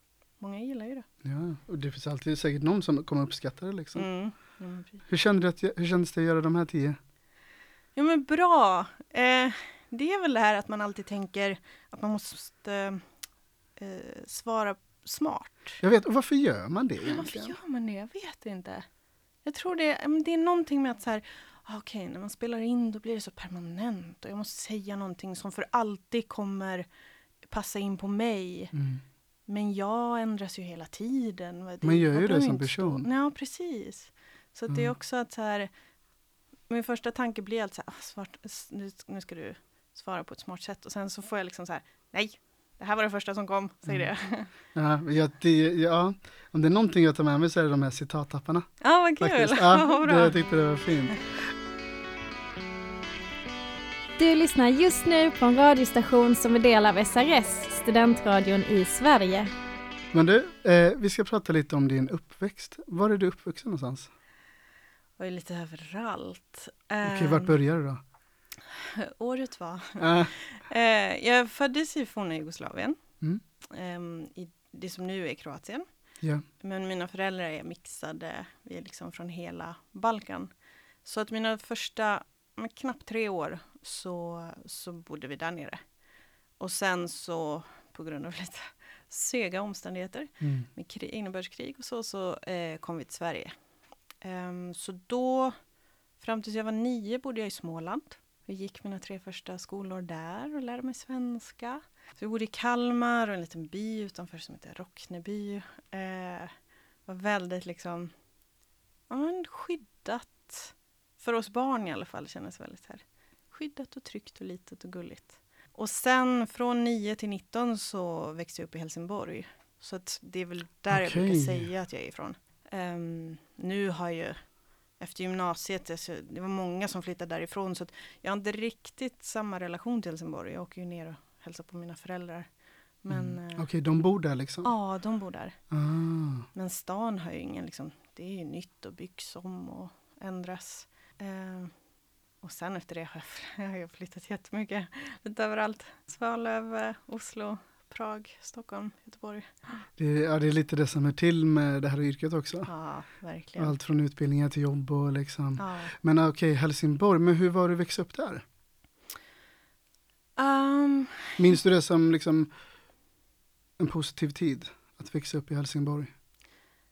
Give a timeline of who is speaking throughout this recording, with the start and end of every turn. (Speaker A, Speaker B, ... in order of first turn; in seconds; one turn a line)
Speaker A: 0.4-1.1
Speaker B: 1.2-4.1
Speaker A: 3.9-5.0
Speaker B: 5.1-7.0
Speaker A: 8.0-13.0
Speaker A: 13.8-15.8
Speaker B: 15.8-17.6
Speaker A: 17.0-18.9
Speaker A: 19.4-26.9
Speaker A: 27.5-28.7
Speaker B: 28.7-29.0
Speaker A: 29.5-35.7
Speaker B: 31.8-33.1
Speaker A: 36.7-44.5
Speaker B: 44.7-51.3
Speaker A: 48.8-50.5
Speaker C: 54.2-59.5
Speaker B: 60.1-64.1
Speaker A: 65.2-67.6
Speaker B: 67.0-68.0
Speaker A: 68.7-73.0
Speaker B: 70.0-70.3
Speaker A: 73.7-75.9
Speaker A: 76.6-80.5
Speaker A: 81.0-85.8
Speaker A: 86.6-93.5
Speaker B: 90.4-90.7
Speaker A: 94.2-95.6
Speaker A: 96.2-106.5
Speaker A: 107.1-108.1
Speaker A: 109.1-124.4
Speaker B: 120.9-121.7
Speaker A: 125.0-132.5
Speaker A: 133.0-133.7
Speaker B: 133.1-134.7
Speaker A: 134.6-135.6
Speaker B: 135.7-136.5
Speaker A: 136.5-141.7
Speaker A: 142.4-149.8
Speaker B: 150.0-152.7
Speaker A: 152.7-153.7
Speaker B: 153.6-158.4
Speaker A: 155.6-155.9
Speaker A: 160.4-161.5
Speaker B: 161.4-162.5
Speaker B: 163.8-166.1